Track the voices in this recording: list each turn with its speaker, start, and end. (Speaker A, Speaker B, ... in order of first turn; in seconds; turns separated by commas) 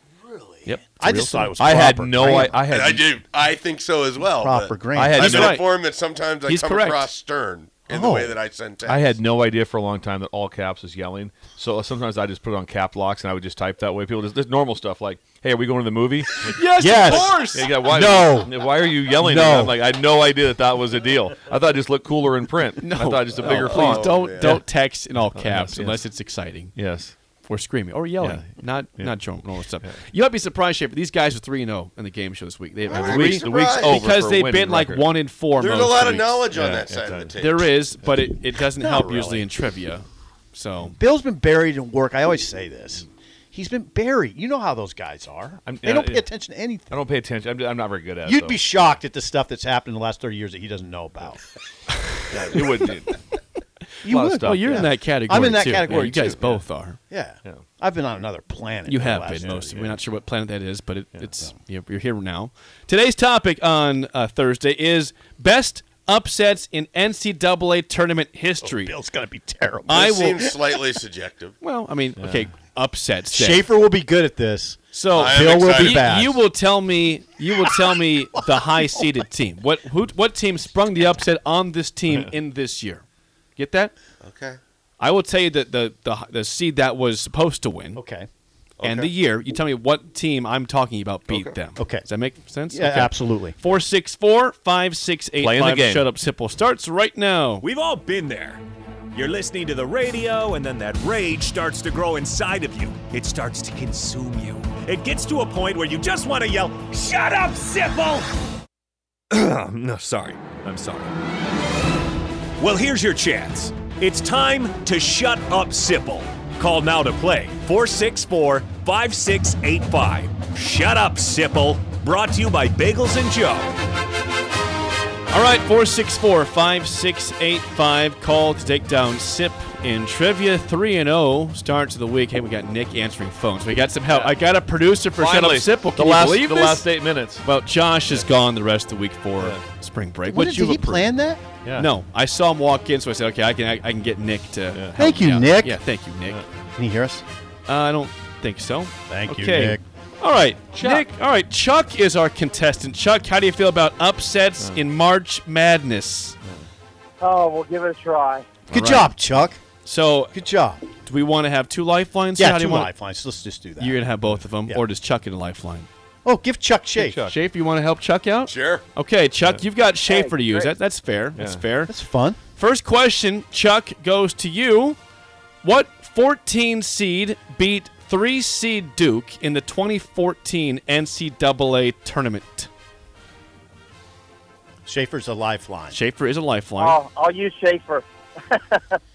Speaker A: 0.2-2.6, Speaker B: 0.7-1.5, Speaker C: 1.6-3.1, Speaker D: 2.7-9.2, Speaker A: 4.3-5.4, Speaker C: 5.0-5.6, Speaker B: 5.2-5.7, Speaker B: 6.5-7.1, Speaker A: 7.9-8.4, Speaker C: 8.9-24.6, Speaker B: 16.4-17.7, Speaker A: 16.8-19.8, Speaker B: 22.8-26.8, Speaker D: 23.4-24.6, Speaker C: 25.4-26.1, Speaker C: 26.8-27.1, Speaker B: 27.4-36.4, Speaker C: 28.2-29.3, Speaker D: 32.9-34.0, Speaker C: 32.9-35.1, Speaker D: 35.6-37.7, Speaker C: 36.5-37.4, Speaker B: 37.4-41.0, Speaker A: 38.8-39.5, Speaker A: 40.9-47.0, Speaker C: 45.6-46.3, Speaker C: 46.9-48.8, Speaker A: 48.2-51.5, Speaker A: 52.3-52.9, Speaker C: 52.3-53.2, Speaker A: 54.0-60.0, Speaker C: 54.1-54.9, Speaker B: 54.4-57.0, Speaker C: 55.9-56.3, Speaker B: 58.9-68.9, Speaker A: 68.6-70.5, Speaker B: 69.9-70.5, Speaker D: 69.9-71.6, Speaker B: 71.6-73.7, Speaker C: 72.2-72.5, Speaker A: 73.3-76.4, Speaker B: 74.9-83.0, Speaker D: 75.2-76.1, Speaker A: 77.6-79.1, Speaker B: 83.6-83.9, Speaker D: 84.2-84.6, Speaker B: 85.0-88.0, Speaker A: 88.0-88.3, Speaker D: 88.8-89.1, Speaker B: 88.8-97.7, Speaker D: 91.3-91.5, Speaker A: 91.8-92.1, Speaker A: 92.7-93.6, Speaker C: 95.4-96.1, Speaker E: 97.6-98.6, Speaker E: 99.1-108.3, Speaker E: 109.3-111.1, Speaker E: 112.6-123.8, Speaker B: 125.3-136.9, Speaker C: 134.1-134.3, Speaker C: 135.2-137.4, Speaker B: 137.4-141.1, Speaker A: 140.3-141.4, Speaker C: 141.6-141.9, Speaker B: 141.8-146.4, Speaker C: 144.7-145.0, Speaker A: 144.9-145.8, Speaker A: 146.8-147.2, Speaker B: 147.7-156.4, Speaker A: 149.1-149.8, Speaker C: 150.7-151.1, Speaker C: 154.6-154.8, Speaker F: 157.2-158.5, Speaker B: 158.7-159.1, Speaker A: 158.7-159.6, Speaker B: 159.8-160.4, Speaker A: 160.3-160.8, Speaker B: 161.0-162.9, Speaker A: 162.4-164.1, Speaker B: 163.8-165.9, Speaker A: 166.2-167.3, Speaker C: 167.0-167.4, Speaker B: 167.3-171.9, Speaker D: 168.5-168.8, Speaker F: 170.1-170.7, Speaker C: 171.4-171.7, Speaker A: 171.9-172.4, Speaker B: 172.6-175.0, Speaker B: 175.6-182.7, Speaker A: 184.9-186.0, Speaker B: 185.9-187.0, Speaker F: 186.8-189.0